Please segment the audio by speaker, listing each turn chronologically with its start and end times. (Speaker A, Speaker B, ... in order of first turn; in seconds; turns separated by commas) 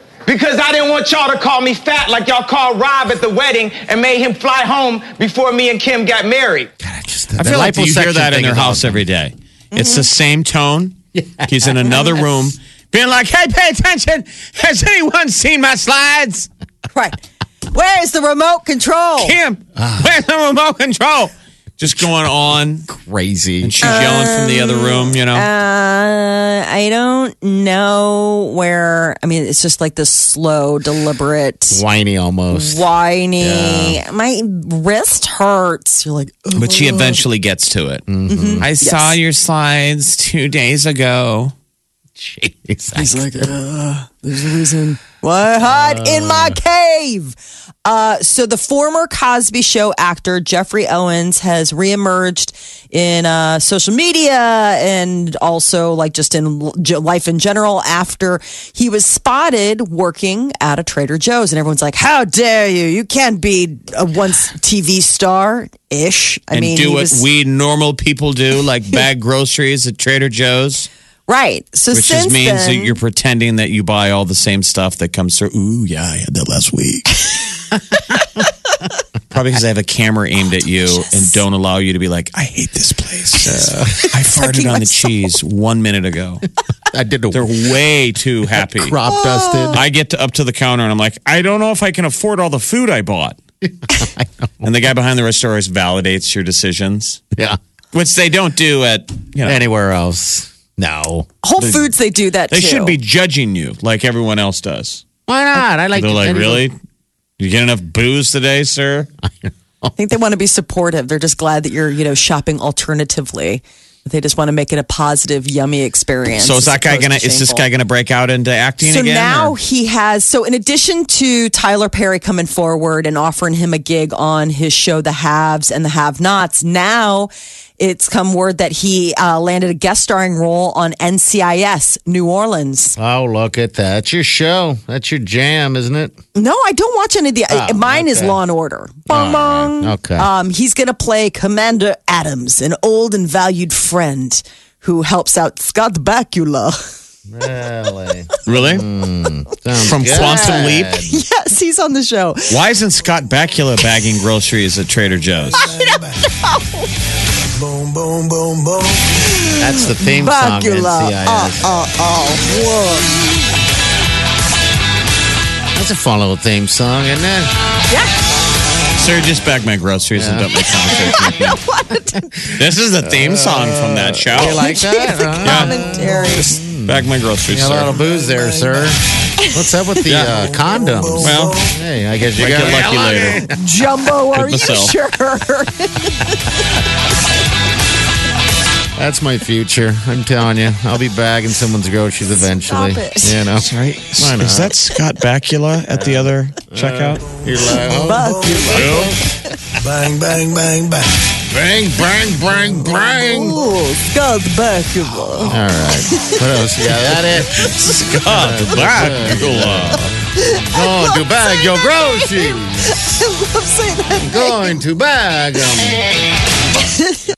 Speaker A: 0.3-6.7, Speaker B: 6.8-9.0, Speaker C: 7.4-16.5, Speaker D: 9.7-10.1, Speaker B: 11.2-11.9, Speaker D: 16.9-19.4, Speaker C: 19.2-22.9, Speaker B: 19.8-20.1, Speaker B: 22.9-23.8, Speaker C: 23.6-25.5, Speaker D: 23.8-31.8, Speaker B: 31.7-32.9, Speaker D: 32.5-37.2, Speaker B: 33.4-34.0, Speaker C: 36.5-38.1, Speaker B: 38.1-38.7, Speaker D: 38.3-39.2, Speaker C: 38.6-41.5, Speaker B: 42.2-43.5, Speaker D: 43.0-67.2, Speaker B: 45.6-46.6, Speaker C: 66.5-70.9, Speaker D: 71.3-73.0, Speaker C: 71.9-77.3, Speaker C: 79.3-86.5, Speaker D: 81.1-81.4, Speaker B: 83.5-84.1, Speaker D: 84.0-85.3, Speaker B: 86.9-87.7, Speaker C: 87.3-89.0, Speaker B: 88.6-89.8, Speaker D: 89.1-89.8, Speaker C: 89.7-93.4, Speaker B: 93.9-94.5, Speaker C: 94.6-97.2, Speaker C: 97.9-99.6, Speaker B: 99.4-101.3, Speaker D: 101.4-103.0, Speaker C: 101.6-101.9, Speaker C: 102.5-105.0, Speaker B: 105.3-106.7, Speaker C: 106.0-106.8, Speaker C: 107.4-109.1, Speaker B: 109.4-109.9, Speaker D: 110.0-117.6, Speaker C: 116.3-119.5, Speaker D: 118.8-133.0, Speaker B: 133.0-136.2, Speaker D: 136.3-146.9, Speaker B: 137.5-138.4, Speaker B: 139.1-140.3, Speaker B: 147.3-151.2, Speaker C: 148.5-148.8, Speaker C: 149.8-150.9, Speaker D: 150.1-152.6, Speaker C: 152.5-155.7, Speaker E: 155.5-156.3, Speaker D: 155.8-156.9, Speaker E: 157.6-159.1, Speaker D: 159.3-163.2, Speaker B: 159.6-161.7, Speaker B: 165.8-167.6, Speaker C: 168.9-171.6, Speaker B: 170.1-171.3, Speaker D: 171.0-172.3, Speaker C: 172.5-174.8, Speaker B: 173.0-179.0, Speaker D: 174.4-176.6, Speaker C: 175.4-178.0, Speaker E: 178.0-178.9, Speaker B: 179.5-183.6, Speaker C: 180.1-180.5, Speaker E: 180.3-181.8, Speaker C: 181.2-181.6, Speaker C: 182.4-183.5, Speaker D: 183.4-186.5, Speaker C: 184.3-184.9, Speaker B: 189.0-194.8, Speaker D: 192.4-193.4, Speaker C: 193.6-197.2, Speaker B: 195.9-199.2, Speaker E: 197.3-199.0, Speaker D: 197.6-198.9, Speaker C: 198.7-199.2, Speaker E: 199.8-201.3, Speaker B: 201.5-203.6, Speaker D: 202.9-205.6, Speaker B: 205.5-207.7, Speaker D: 206.1-206.4, Speaker C: 207.6-210.0, Speaker B: 208.3-213.2, Speaker D: 210.4-214.8, Speaker B: 214.2-216.1, Speaker D: 216.8-217.2